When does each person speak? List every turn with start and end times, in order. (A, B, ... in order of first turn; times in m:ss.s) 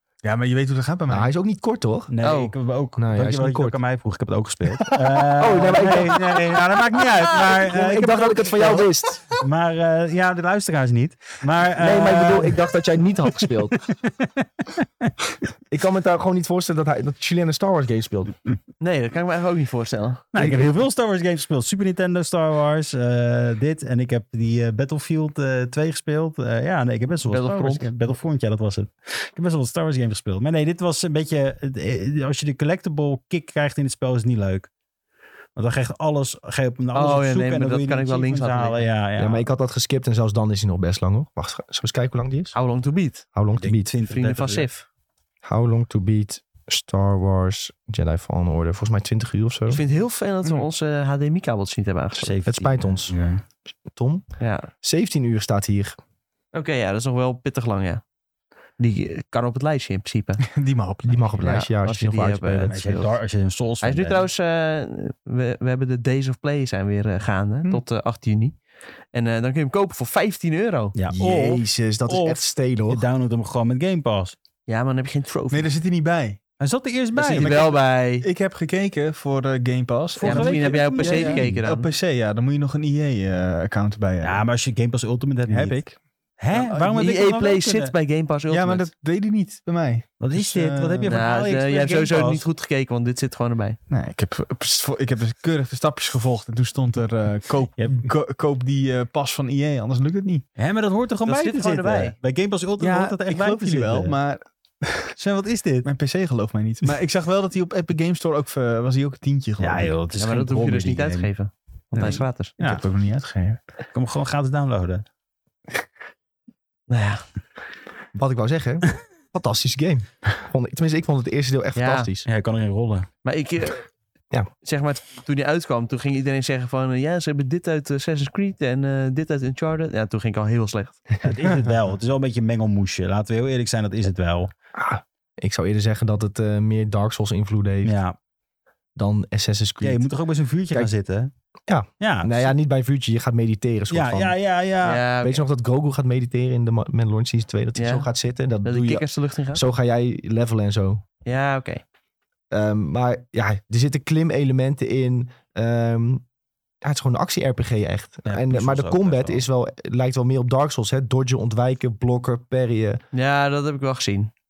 0:00.2-0:01.3 A
0:01.1-0:02.1 B
0:02.1-0:08.8 C
0:02.2-0:02.5 D
0:03.0-0:03.8 B
0:05.1-0:06.5 B
0:07.4-0:09.3 B
0:09.4-0:12.7 C
0:11.7-0:13.9 B
0:13.4-0:15.1 C
0:15.7-0:18.4 B
0:18.8-0:20.3 D
0:20.3-0:34.7 C
0:27.3-0:27.9 D
0:35.6-0:39.5 C
0:36.9-0:38.9 D
0:39.2-0:42.5 B
0:42.5-0:43.2 D
0:43.3-0:43.9 B
0:43.6-0:44.7 C
0:44.0-0:44.8 D
0:45.4-0:49.8 B
0:49.7-0:52.3 D
0:52.2-0:53.4 C
0:52.4-0:53.2 B
0:53.9-0:54.3 B
0:54.4-0:54.7 D
0:54.8-0:56.0 B
0:56.5-0:58.0 D
0:58.8-1:00.4 D
1:00.4-1:01.4 A
1:01.0-1:02.7 B
1:01.4-1:03.1 D
1:02.5-1:04.3 C
1:03.8-1:08.6 D
1:09.1-1:10.9 D
1:10.9-1:14.4 C
1:11.1-1:13.0 B
1:14.7-1:15.7 D
1:15.5-1:16.4 A
1:16.6-1:17.6 C
1:17.2-1:18.2 D
1:17.3-1:24.4 A
1:20.1-1:21.6 C
1:20.2-1:21.9 D
1:24.2-1:25.8 C
1:25.5-1:26.0 A
1:26.4-1:27.9 C
1:26.5-1:27.0 A
1:26.9-1:28.9 D
1:28.5-1:31.2 A
1:30.2-1:32.5 C
1:31.0-1:33.8 D
1:33.9-1:40.4 A
1:37.8-1:38.1 C
1:40.6-1:44.1 C
1:41.2-1:42.1 D
1:42.8-1:45.1 A
1:45.2-1:45.9 C
1:45.8-1:50.0 A
1:49.6-1:51.3 C
1:50.2-1:52.5 D
1:51.9-1:52.8 C
1:52.1-1:53.6 A
1:53.9-1:55.0 C
1:56.9-1:57.2 D
1:58.1-2:02.3 B
2:01.8-2:02.1 D
2:02.2-2:03.1 C
2:03.2-2:03.9 D
2:04.6-2:11.0 D
2:11.2-2:14.5 C
2:14.8-2:18.0 B
2:17.8-2:18.2 C
2:19.0-2:20.1 B
2:19.8-2:21.3 C
2:21.7-2:24.3 B
2:22.0-2:22.5 C
2:23.9-2:25.0 C
2:24.8-2:25.4 D
2:25.2-2:31.0 B
2:27.8-2:28.1 D
2:28.6-2:29.6 D
2:31.2-2:31.8 D
2:32.5-2:36.2 B
2:36.8-2:43.0 B
2:38.2-2:39.5 C
2:43.1-2:44.3 D